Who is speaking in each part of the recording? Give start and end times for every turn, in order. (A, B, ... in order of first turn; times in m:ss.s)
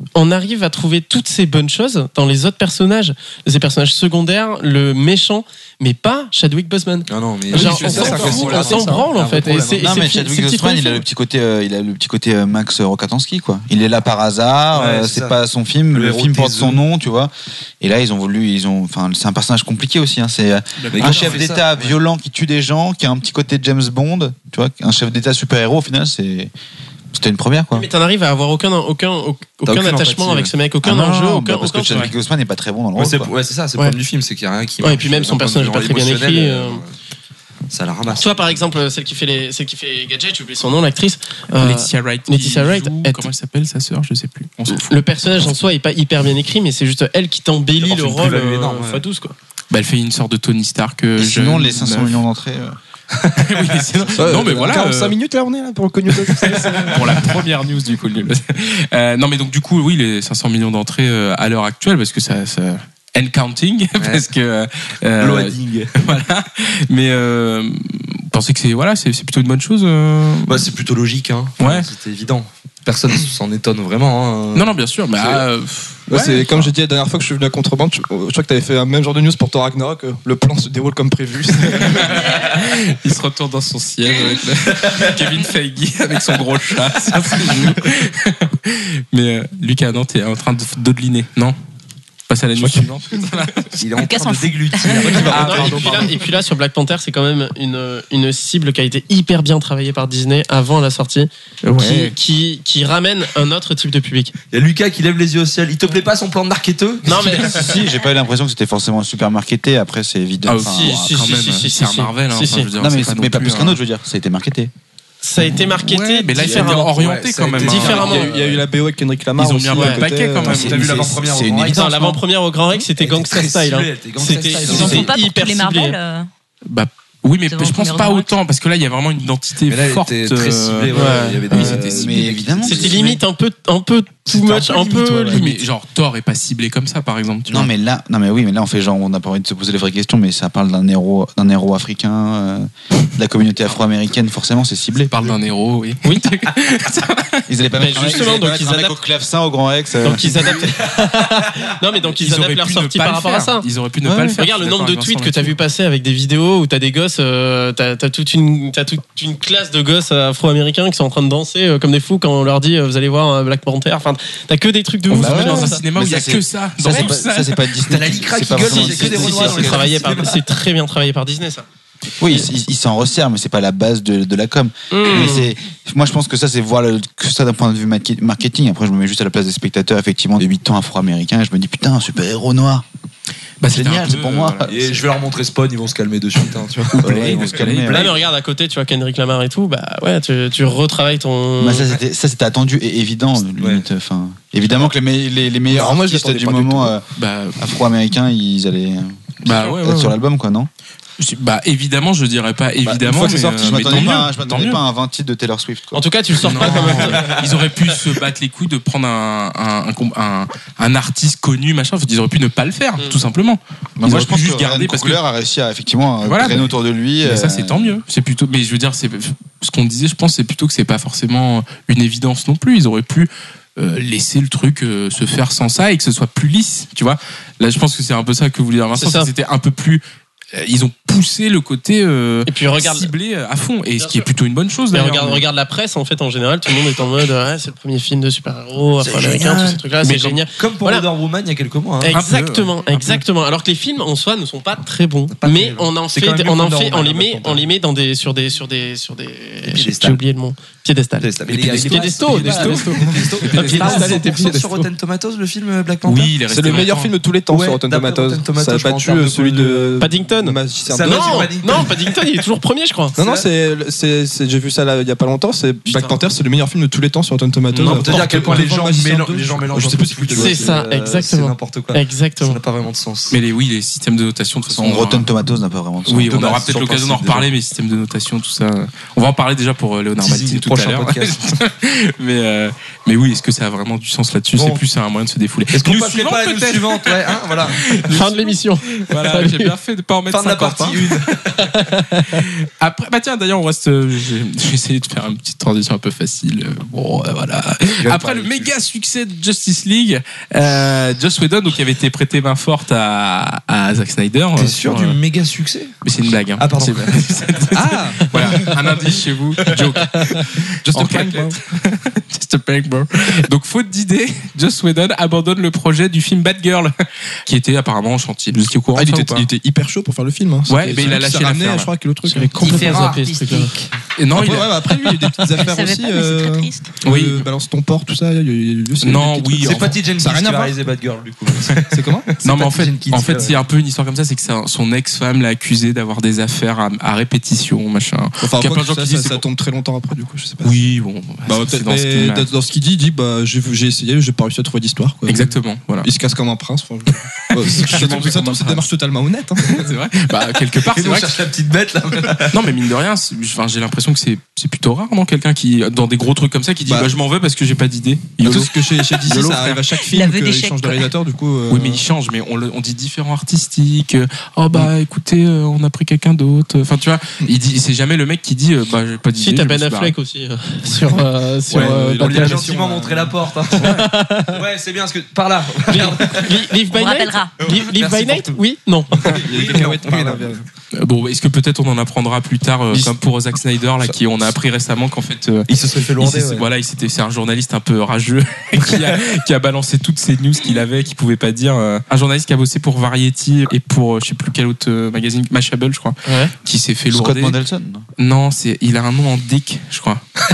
0:00.1-0:11.0 A
0:07.1-0:10.0 B
0:07.5-0:09.0 C
0:07.6-0:08.8 D
0:09.8-0:26.5 E
0:14.7-0:15.4 B
0:15.9-0:16.8 B
0:20.8-0:21.4 D
0:20.9-0:22.0 B
0:27.1-0:27.9 E
0:27.7-0:32.0 A
0:29.6-0:30.5 B
0:30.8-0:33.3 E
0:33.0-0:36.9 B
0:34.8-0:36.8 A
0:37.7-0:38.8 B
0:38.1-0:43.3 A
0:41.6-0:45.5 D
0:44.7-0:49.3 A
0:47.8-0:49.0 B
0:49.7-0:52.2 D
0:51.2-0:52.8 E
0:53.2-0:55.1 D
0:54.2-0:57.4 C
0:56.1-1:10.7 D
1:05.2-1:06.0 B
1:10.5-1:15.4 B
1:11.6-1:11.9 D
1:14.5-1:16.5 D
1:16.1-1:22.2 C
1:21.7-1:31.6 D
1:24.8-1:25.1 B
1:32.3-1:33.8 D
1:32.6-1:32.9 C
1:33.8-1:36.2 B
1:33.9-1:35.6 F
1:35.0-1:36.1 D
1:35.1-1:44.3 A
1:41.6-1:42.1 D
1:44.5-1:47.7 B
1:47.0-1:47.6 A
1:47.3-1:51.3 E
1:50.4-1:53.8 D
1:50.6-1:52.7 A
1:52.8-1:54.7 E
1:55.2-1:56.9 A
1:55.4-1:58.3 D
1:56.4-1:58.6 B
1:57.6-1:58.4 A
1:57.9-2:00.7 C
1:59.4-2:01.0 D
1:59.7-2:00.0 A
2:00.4-2:02.2 E
2:00.5-2:01.9 B
2:01.7-2:06.0 A
2:02.9-2:05.1 B
2:04.4-2:06.3 F
2:06.6-2:12.1 D
2:07.5-2:08.3 F
2:09.7-2:13.2 B
2:10.9-2:11.9 A
2:11.5-2:13.2 E
2:12.6-2:15.6 A
2:14.3-2:15.4 E
2:14.7-2:17.7 D
2:17.5-2:25.1 E
2:25.1-2:27.5 D
2:27.5-2:30.7 E
2:27.8-2:28.9 A
2:30.0-2:33.6 A
2:32.1-2:35.6 D
2:34.0-2:34.4 E
2:34.4-2:45.8 A
2:45.1-2:47.7 D
2:45.1-2:49.9 E
2:47.8-2:50.4 B
2:48.6-2:51.6 A
2:52.2-3:02.8 E
2:54.9-2:55.5 A
3:03.6-3:05.0 D
3:03.7-3:04.9 E
3:04.6-3:08.2 B
3:06.9-3:07.9 D
3:07.0-3:08.1 E
3:07.9-3:11.9 A
3:11.6-3:17.0 E
3:13.6-3:13.8 B
3:15.7-3:16.9 C
3:17.2-3:17.6 D
3:17.6-3:20.7 E
3:19.4-3:20.2 D
3:21.2-3:24.8 D
3:22.9-3:24.1 C
3:23.6-3:27.2 E
3:25.9-3:27.3 A
3:26.4-3:35.2 D
3:26.6-3:27.4 B
3:34.0-3:38.0 E
3:36.2-3:36.7 D
3:37.2-3:50.0 D
3:49.0-3:49.3 A
3:50.5-3:55.4 D
3:52.5-3:53.1 A
3:54.0-3:54.3 A
3:54.9-4:01.0 A
3:59.0-4:02.1 B
4:02.0-4:14.8 A
4:02.1-4:03.2 D
4:05.3-4:07.7 B
4:09.6-4:10.2 B
4:11.2-4:16.9 B
4:11.6-4:14.2 D
4:16.0-4:17.1 D
4:16.5-4:21.9 C
4:17.5-4:20.1 B
4:20.0-4:23.2 A
4:20.8-4:22.0 B
4:23.2-4:23.5 B
4:23.2-4:30.8 C
4:25.9-4:26.1 A
4:27.7-4:28.2 D
4:27.8-4:33.4 B
4:30.4-4:32.6 A
4:33.3-4:35.3 D
4:34.7-4:36.5 E
4:36.0-4:51.4 D
4:36.3-4:37.5 B
4:40.2-4:41.4 B
4:44.6-4:44.8 B
4:45.7-4:48.2 B
4:48.1-4:49.7 A
4:50.3-4:51.7 B
4:51.6-4:52.4 A
4:52.2-5:05.2 D
4:58.0-4:58.7 B
5:04.6-5:05.9 B
5:06.0-5:16.9 D
5:06.6-5:07.2 B
5:07.7-5:08.7 C
5:10.8-5:11.6 C
5:17.4-5:19.5 D
5:18.9-5:23.0 C
5:20.7-5:21.9 D
5:22.3-5:23.7 A
5:22.6-5:23.9 B
5:24.2-5:25.4 D
5:24.3-5:30.8 C
5:25.6-5:26.9 F
5:27.0-5:27.4 D
5:29.0-5:30.0 D
5:29.6-5:33.6 B
5:31.9-5:32.3 C
5:32.4-5:39.4 D
5:38.4-5:40.8 C
5:40.6-5:42.5 D
5:41.4-5:49.8 C
5:45.2-5:46.1 D
5:47.5-5:48.9 D
5:49.6-5:51.4 D
5:50.8-5:52.7 B
5:52.5-5:59.8 D
5:56.8-5:57.1 C
5:58.4-6:02.0 C
6:00.0-6:01.1 F
6:01.7-6:10.1 D
6:09.4-6:12.6 A
6:11.7-6:13.3 C
6:11.7-6:16.6 B
6:13.7-6:14.6 A
6:15.9-6:19.4 A
6:16.9-6:17.5 F
6:17.6-6:18.6 B
6:19.1-6:20.6 B
6:19.4-6:20.6 C
6:20.9-6:37.6 D
6:25.7-6:26.7 B
6:36.2-6:36.5 A
6:37.1-6:38.0 E
6:38.2-6:40.2 D